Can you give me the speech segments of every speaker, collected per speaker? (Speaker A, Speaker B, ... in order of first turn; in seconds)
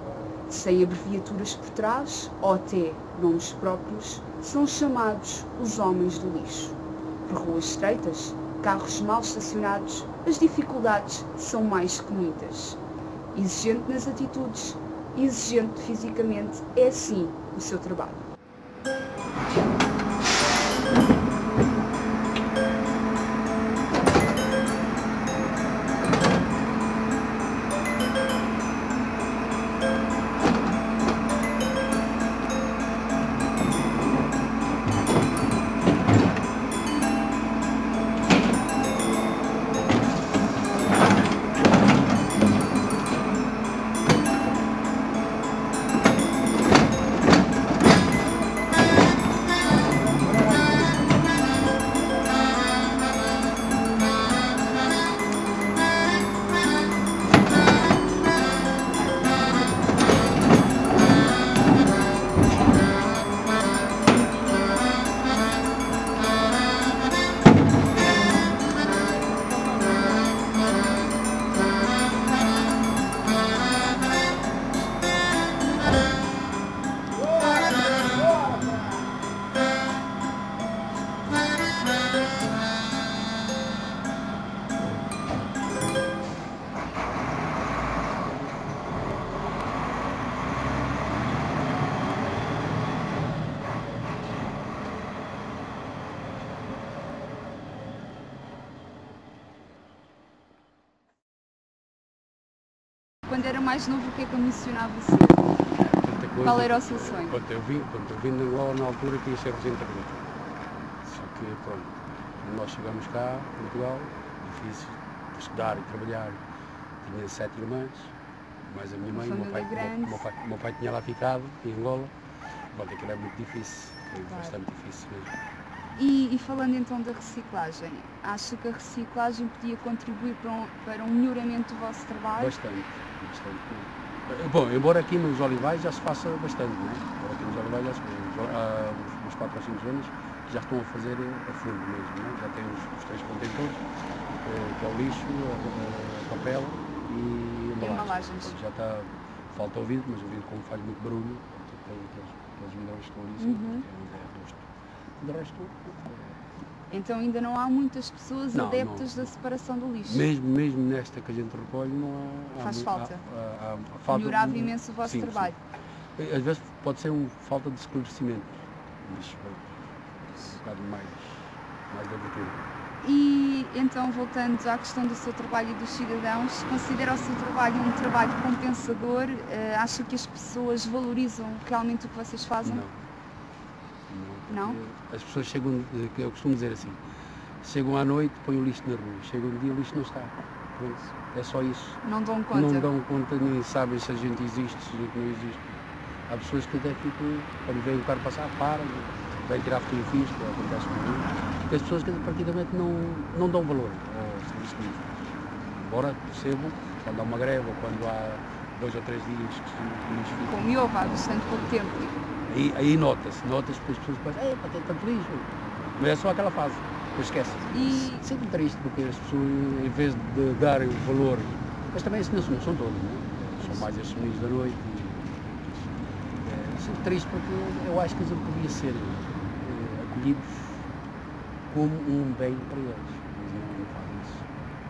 Speaker A: 0.5-12.8, 13.3-18.2, 103.3-105.7, 106.4-107.4, 119.1-120.3, 124.2-124.6, 126.0-132.6, 147.8-148.6, 153.4-153.8, 156.9-160.3, 162.6-163.2, 164.1-165.6, 173.0-182.8, 184.5-184.8, 192.0-192.9, 210.5-212.2, 217.7-218.2
Speaker B: 105.8-110.4, 111.0-116.4, 117.0-118.1, 118.7-122.1, 122.7-125.3, 132.4-143.8, 144.4-154.7, 155.2-156.4, 158.5-159.3, 160.1-165.5, 166.2-169.8, 170.5-172.7, 182.6-182.9, 184.1-187.0, 187.6-192.0, 192.5-210.6, 212.5-225.8, 226.4-230.8, 231.7-234.5